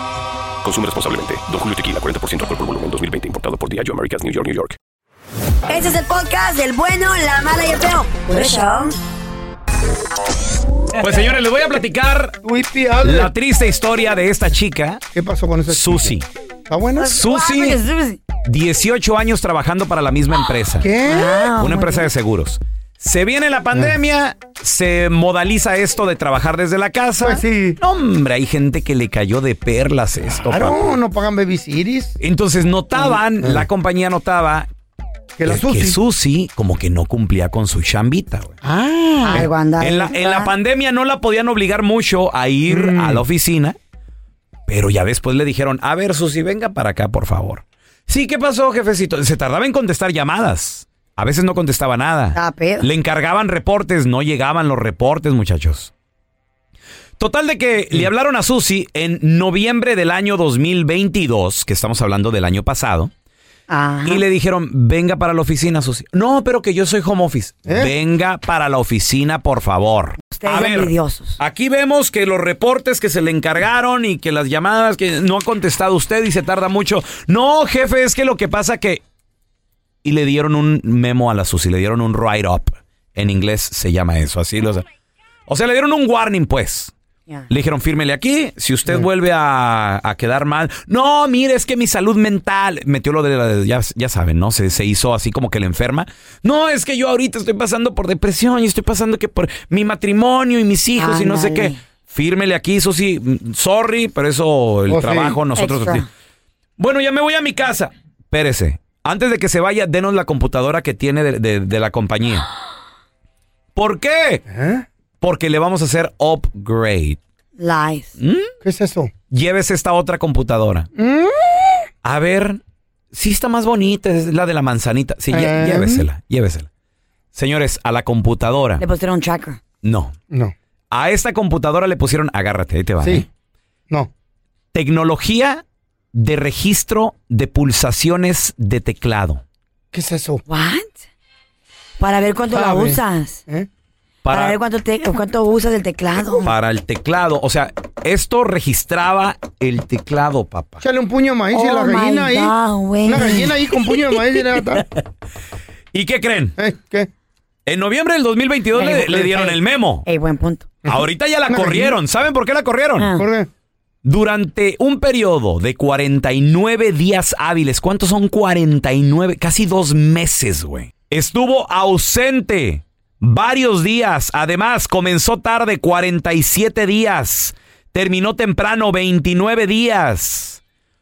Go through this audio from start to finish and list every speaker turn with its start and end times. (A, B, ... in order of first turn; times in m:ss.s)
0:00.6-0:04.8 A
0:05.7-0:09.0 B
0:11.0-0:12.4 C
0:12.4-0:13.3 D
0:13.0-0:15.0 C
0:15.1-0:16.1 D
0:15.7-0:16.2 C
0:16.7-0:17.1 D
0:17.0-0:18.2 B
0:17.1-0:17.8 C
0:18.4-0:20.9 C
0:20.8-0:21.5 D
0:21.0-0:22.1 B
0:21.6-0:31.0 C
0:27.2-0:27.8 D
0:30.4-0:32.2 D
0:32.2-0:34.7 C
0:33.4-0:33.6 D
0:35.4-0:36.0 D
0:35.4-0:38.6 C
0:38.6-0:39.5 D
0:39.2-0:40.5 B
0:39.3-0:43.8 C
0:42.7-0:43.2 D
0:44.7-0:55.9 C
0:52.3-0:52.9 B
0:57.2-1:03.1 C
1:03.7-1:04.2 B
1:04.0-1:19.0 C
1:07.6-1:07.9 D
1:10.2-1:11.4 B
1:20.0-1:24.8 C
1:25.5-1:26.9 C
1:27.5-1:46.1 C
1:41.0-1:41.8 B
1:44.9-1:45.4 D
1:45.6-1:46.1 B
1:46.8-1:52.5 C
1:53.8-1:54.4 C
1:54.5-1:54.8 D
1:55.2-1:57.2 C
1:57.6-1:58.1 B
1:58.2-1:58.5 C
1:58.6-1:59.1 D
1:59.3-2:00.9 C
2:01.0-2:01.5 D
2:02.0-2:02.6 C
2:03.1-2:06.7 C
2:05.3-2:06.0 D
2:07.3-2:08.8 C
2:08.8-2:09.6 B
2:09.8-2:10.1 C
2:10.9-2:13.2 C
2:13.0-2:13.2 D
2:14.7-2:15.6 C
2:16.1-2:19.4 C
2:19.9-2:20.4 D
2:20.5-2:21.0 B
2:22.0-2:23.4 B
2:22.5-2:23.7 D
2:24.2-2:24.6 C
2:24.3-2:26.5 B
2:26.4-2:30.8 C
2:30.8-2:32.5 D
2:31.5-2:33.6 B
2:33.0-2:34.8 D
2:35.9-2:36.6 C
2:36.6-2:37.1 D
2:37.6-2:40.0 C
2:38.8-2:39.6 B
2:40.1-2:40.7 B
2:40.9-2:43.1 C
2:40.9-2:42.0 D
2:43.0-2:43.2 B
2:43.2-2:43.5 D
2:44.0-3:00.6 C